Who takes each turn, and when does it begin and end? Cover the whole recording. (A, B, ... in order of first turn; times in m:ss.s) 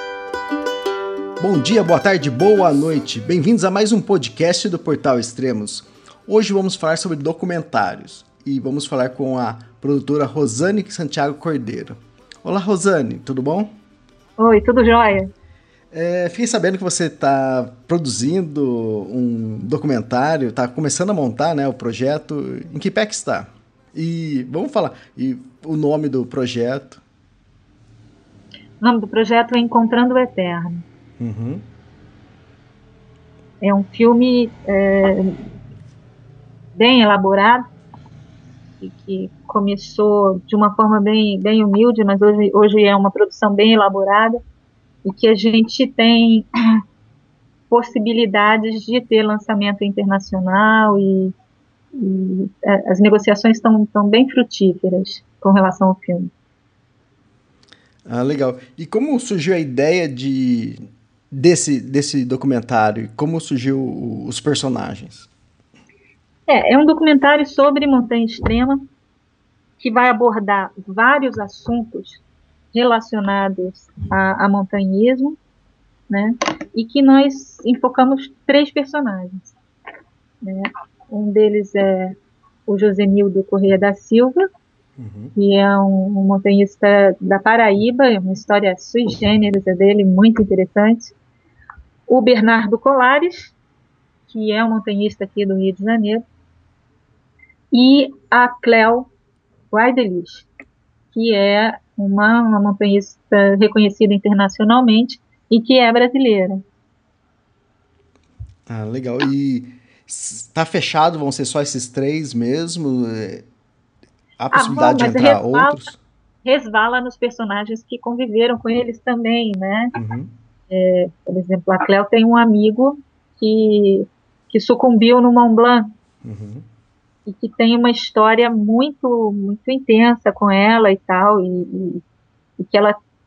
0:01.4-0:13.7 A
0:14.4-0:15.3 B
0:15.9-0:27.0 A
0:28.8-0:30.8 B
0:31.2-0:31.6 A
0:33.6-0:35.4 B
0:36.7-0:37.6 B
0:38.8-0:44.4 B
0:45.0-0:46.5 B
0:47.7-0:51.3 B
0:52.0-0:56.3 B
0:58.0-1:05.3 A
1:06.5-1:08.8 B
1:09.8-1:12.2 B
1:12.7-1:15.4 B
1:16.1-1:19.6 B
1:20.4-1:22.1 B
1:22.7-1:24.4 B
1:25.0-1:25.3 A
1:25.4-1:31.1 B
1:32.1-1:33.6 B
1:34.3-1:36.2 B
1:37.7-1:39.1 B
1:39.7-1:40.5 B
1:41.1-1:46.6 B
1:48.7-1:53.4 A
1:54.4-1:56.0 A
1:54.5-1:55.8 B
1:56.4-1:59.9 B
2:00.0-2:00.3 A
2:00.7-2:05.9 B
2:06.2-2:06.6 A
2:07.2-2:12.0 B
2:12.6-2:13.0 B